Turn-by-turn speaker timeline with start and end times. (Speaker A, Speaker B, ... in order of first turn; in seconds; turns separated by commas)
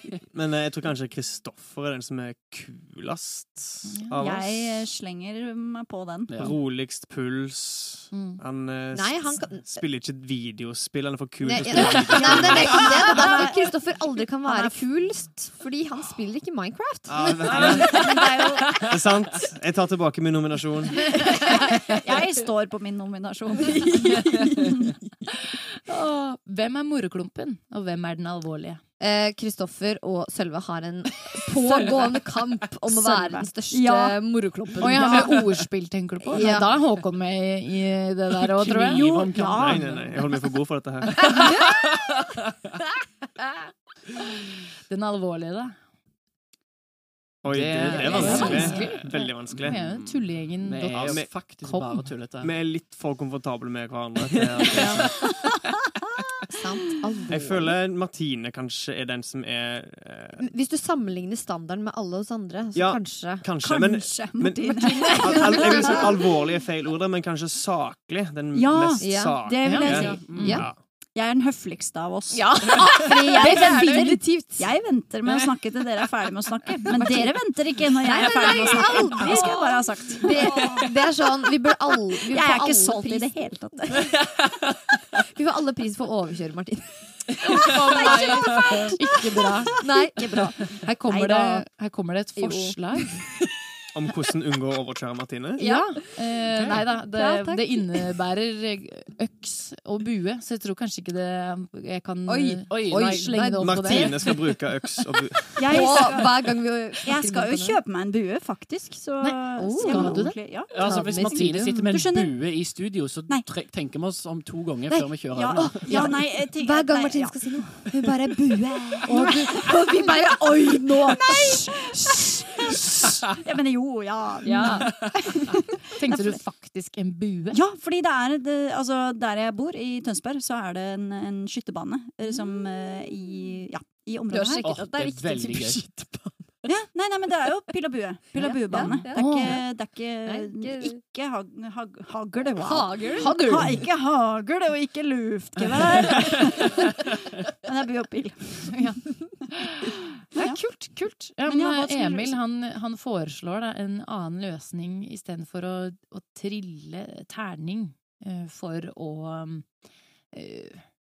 Speaker A: 0.3-4.9, Speaker B: 3.8-4.2, Speaker C: 4.2-6.5, Speaker D: 6.3-6.5, Speaker A: 6.4-12.9, Speaker B: 8.1-8.4, Speaker E: 8.9-9.8, Speaker E: 11.4-18.7, Speaker C: 11.8-14.9, Speaker D: 11.8-12.3, Speaker A: 17.1-18.0, Speaker D: 17.5-18.0, Speaker C: 17.6-18.6, Speaker A: 18.8-21.1, Speaker C: 21.1-25.0, Speaker E: 23.7-24.7, Speaker B: 25.3-28.8, Speaker E: 29.0-35.3, Speaker C: 32.9-35.5, Speaker B: 34.8-39.1, Speaker E: 36.3-36.8, Speaker D: 38.5-40.2, Speaker C: 38.9-39.8, Speaker A: 39.5-41.4, Speaker E: 41.3-41.8, Speaker D: 41.4-42.0, Speaker B: 44.9-45.8, Speaker A: 47.4-49.8, Speaker D: 47.5-52.5, Speaker B: 47.9-52.1, Speaker E: 48.1-48.9, Speaker C: 48.1-48.8, Speaker A: 50.9-51.3, Speaker A: 52.4-55.2, Speaker D: 54.3-55.0, Speaker C: 55.1-55.6, Speaker E: 56.5-57.8, Speaker A: 57.3-60.5, Speaker E: 60.4-63.5, Speaker A: 62.8-70.8, Speaker C: 63.6-66.1, Speaker E: 64.5-66.0, Speaker B: 64.8-65.7, Speaker C: 68.5-70.4, Speaker E: 69.0-69.4, Speaker B: 69.6-70.7, Speaker D: 69.8-70.6, Speaker E: 70.2-70.7, Speaker C: 71.1-80.9, Speaker B: 72.3-74.7, Speaker E: 73.0-74.6, Speaker E: 76.9-77.2, Speaker E: 78.0-84.1, Speaker C: 82.2-84.0, Speaker E: 85.2-88.9, Speaker B: 87.4-89.9, Speaker E: 89.8-90.4, Speaker C: 90.2-91.6, Speaker B: 90.7-93.2, Speaker E: 92.3-92.8, Speaker A: 93.9-95.7, Speaker E: 95.6-98.0, Speaker B: 95.6-104.3, Speaker D: 96.5-96.8, Speaker E: 102.2-104.3, Speaker D: 102.7-103.4, Speaker A: 103.6-106.0, Speaker C: 105.6-106.3, Speaker E: 105.7-107.8, Speaker C: 107.0-112.3, Speaker B: 109.2-110.4, Speaker E: 109.6-111.6, Speaker D: 110.7-116.2, Speaker B: 111.5-111.9, Speaker E: 114.9-121.7, Speaker C: 115.3-117.7, Speaker C: 119.0-126.4, Speaker B: 124.4-125.3, Speaker E: 124.5-124.9, Speaker B: 125.9-127.6, Speaker C: 127.5-134.7, Speaker E: 134.3-136.5, Speaker D: 134.6-135.9, Speaker C: 136.7-146.9, Speaker E: 138.3-139.6, Speaker B: 138.7-139.6, Speaker E: 140.2-141.0, Speaker E: 142.5-143.4, Speaker B: 143.2-143.8, Speaker D: 145.7-146.3, Speaker C: 147.7-149.0, Speaker B: 148.7-159.8, Speaker C: 150.3-150.6, Speaker C: 151.4-152.4, Speaker B: 160.3-160.8